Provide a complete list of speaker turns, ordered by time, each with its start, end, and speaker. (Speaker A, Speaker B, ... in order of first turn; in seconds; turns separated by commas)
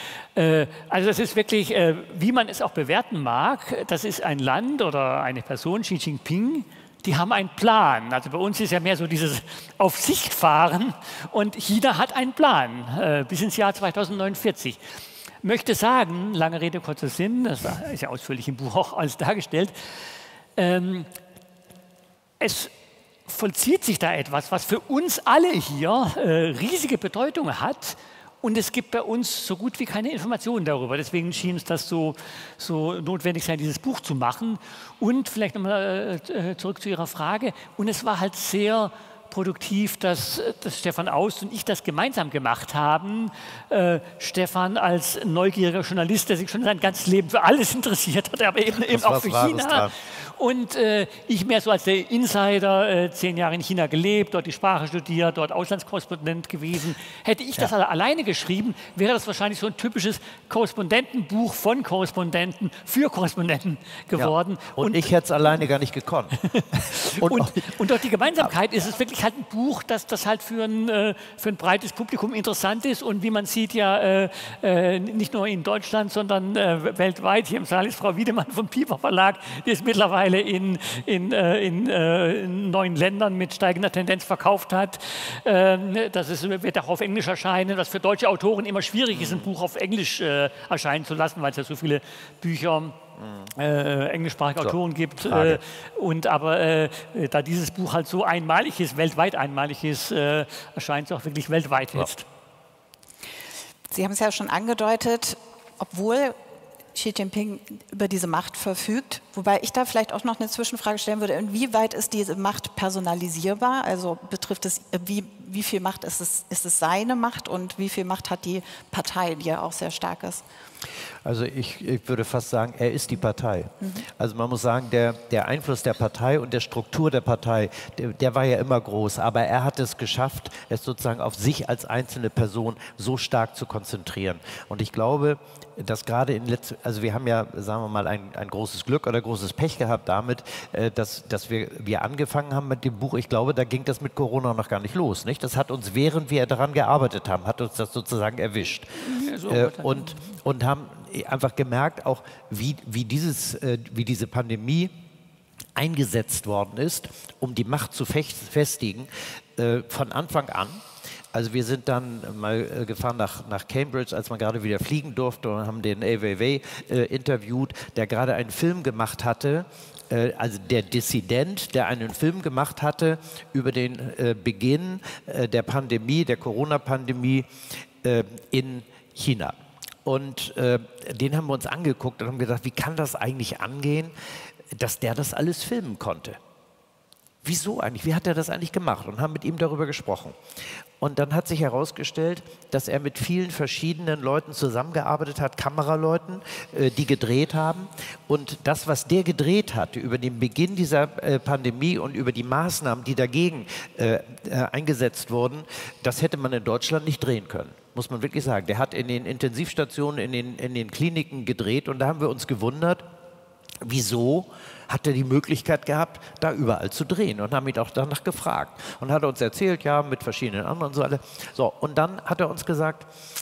Speaker A: 0.4-14.8, Speaker A: 15.4-19.7, Speaker A: 20.6-21.1, Speaker A: 22.4-22.7, Speaker A: 23.3-65.1, Speaker B: 48.9-49.9, Speaker B: 64.2-67.7, Speaker A: 66.5-93.0, Speaker B: 89.1-89.5, Speaker A: 93.6-102.2, Speaker B: 94.6-95.6, Speaker C: 103.9-106.4, Speaker C: 106.9-120.4, Speaker B: 121.2-148.9, Speaker A: 149.0-150.3, Speaker B: 149.5-154.9, Speaker B: 155.8-160.8, Speaker B: 161.3-177.5, Speaker B: 178.0-184.1, Speaker B: 184.7-186.4, Speaker B: 187.4-190.4, Speaker B: 191.0-213.1, Speaker B: 213.8-223.1